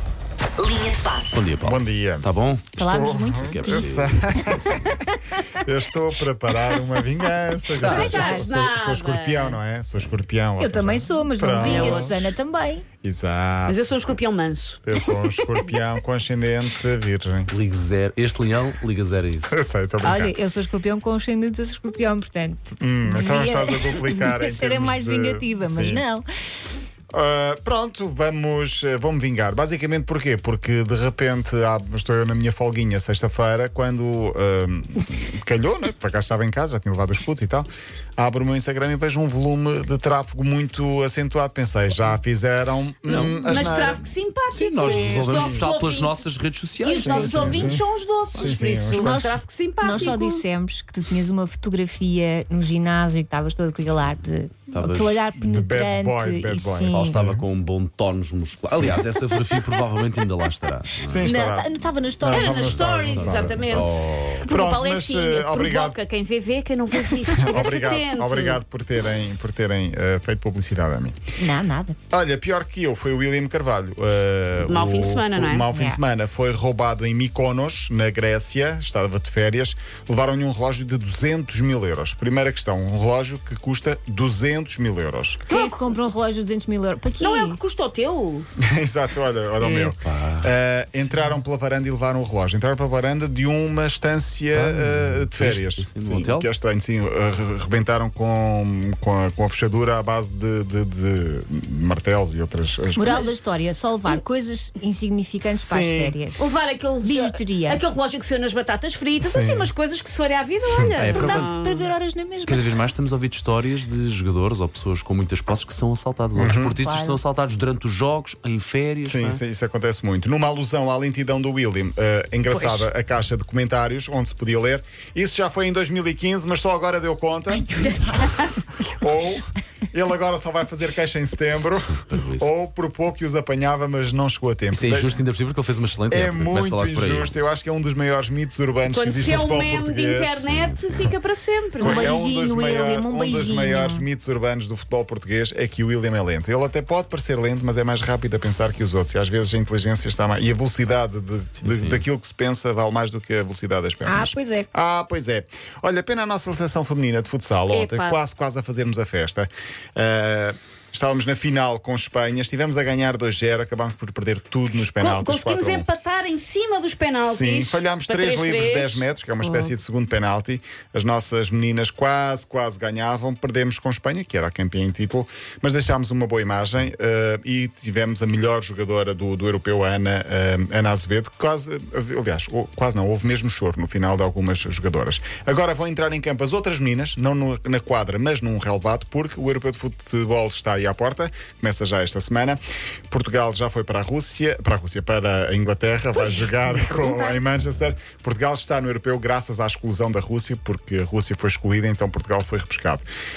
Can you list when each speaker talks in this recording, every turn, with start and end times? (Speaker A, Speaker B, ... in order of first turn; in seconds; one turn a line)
Speaker A: 1.3-2.8
Speaker B: 1.6-4.9
Speaker C: 2.8-5.2
Speaker A: 3.4-4.8
Speaker B: 5.6-12.2
Speaker A: 7.7-8.5
Speaker D: 7.8-9.6
Speaker C: 7.9-8.4
Speaker C: 10.6-12.8
Speaker D: 11.6-12.2
Speaker B: 13.0-13.8
Speaker D: 13.7-14.8
Speaker B: 14.8-17.5
Speaker A: 17.5-19.6
Speaker B: 19.5-20.3
Speaker C: 20.0-26.2
Speaker B: 22.8-26.1
Speaker B: 27.1-44.0
Speaker A: 43.1-43.4
Speaker D: 43.2-46.2
Speaker A: 44.5-47.7
Speaker B: 44.8-45.7
Speaker D: 46.8-50.4
Speaker B: 47.0-49.2
Speaker C: 48.9-57.2
Speaker A: 54.7-55.2
Speaker B: 55.4-57.4
Speaker A: 56.9-61.3
Speaker B: 61.0-66.0
Speaker C: 61.2-62.6
Speaker D: 62.2-68.6
Speaker A: 62.5-64.5
Speaker B: 67.2-71.2
Speaker C: 71.4-72.0
Speaker B: 72.1-85.4
Speaker D: 74.6-75.7
Speaker C: 75.7-76.0
Speaker C: 85.5-87.6
Speaker D: 87.2-88.5
Speaker B: 88.6-103.3
Speaker A: 89.6-91.1
Speaker A: 94.5-96.5
Speaker C: 103.0-106.5
Speaker B: 105.5-106.2
Speaker D: 106.4-111.9
Speaker C: 107.0-107.8
Speaker B: 109.2-109.7
Speaker A: 110.8-111.5
Speaker C: 111.1-112.7
Speaker A: 112.5-119.4
Speaker B: 116.3-116.8
Speaker C: 116.8-117.2
Speaker B: 119.0-128.3
Speaker D: 122.5-122.9
Speaker D: 127.7-128.7
Speaker B: 128.9-135.2
Speaker A: 132.0-132.5
Speaker A: 134.7-137.3
Speaker B: 136.1-140.4
Speaker D: 138.9-142.1
Speaker A: 140.4-141.1
Speaker B: 141.8-165.9
Speaker C: 141.8-144.1
Speaker A: 151.6-152.0
Speaker C: 154.0-154.7
Speaker D: 157.7-158.2
Speaker D: 164.9-169.1
Speaker B: 167.2-203.1
Speaker C: 169.4-169.7
Speaker D: 196.1-197.4